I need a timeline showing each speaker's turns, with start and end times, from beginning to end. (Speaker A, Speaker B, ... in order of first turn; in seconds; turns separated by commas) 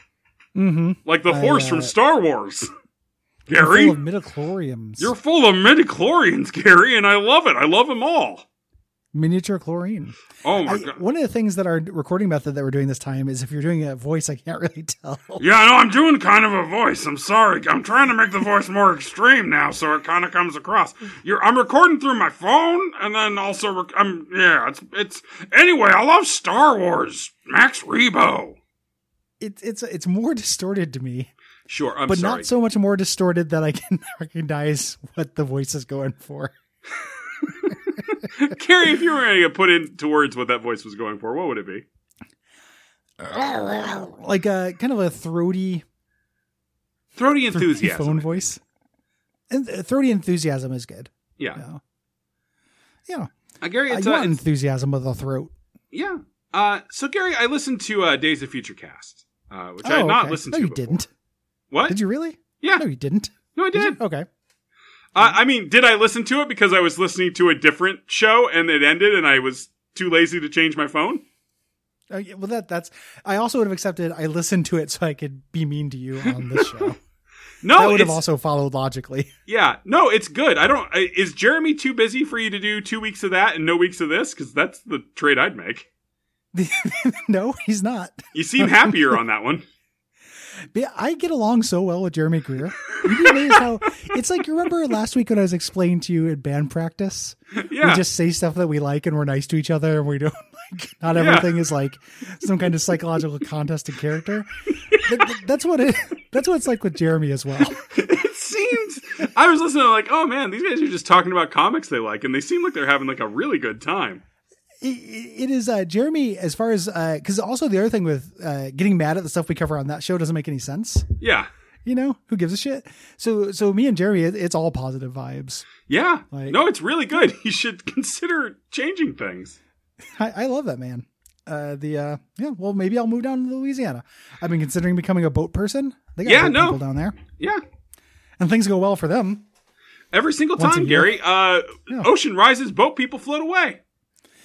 Speaker A: 0.5-1.9, Speaker B: 1.0-2.7, Speaker B: 3.5-4.0, Speaker A: 3.6-5.1, Speaker B: 5.0-8.4, Speaker A: 9.1-15.4, Speaker B: 10.4-11.0, Speaker B: 15.4-28.6, Speaker A: 29.4-31.3, Speaker B: 31.7-32.5, Speaker A: 32.1-36.5, Speaker B: 37.4-41.8, Speaker A: 43.2-45.8, Speaker B: 47.1-48.5, Speaker A: 47.5-48.6, Speaker A: 49.5-51.8, Speaker B: 53.6-54.4, Speaker A: 53.9-55.5, Speaker B: 55.9-61.0, Speaker A: 59.8-61.1, Speaker B: 61.7-62.0, Speaker A: 61.9-64.2, Speaker B: 63.5-64.0, Speaker B: 65.1-71.2, Speaker A: 72.1-77.0, Speaker B: 77.6-78.2, Speaker A: 77.7-79.3, Speaker B: 79.5-85.9, Speaker A: 86.5-89.2, Speaker B: 88.3-89.6, Speaker A: 90.7-104.5, Speaker B: 97.6-98.0, Speaker B: 101.1-101.6, Speaker B: 104.9-105.3, Speaker A: 105.0-107.8, Speaker B: 107.6-114.2, Speaker A: 114.8-121.1, Speaker B: 121.2-121.5, Speaker A: 121.8-125.7, Speaker B: 125.9-129.6, Speaker A: 126.3-126.6, Speaker A: 130.0-137.2, Speaker B: 136.2-136.8, Speaker A: 138.4-139.4, Speaker B: 140.1-143.8, Speaker A: 140.6-141.1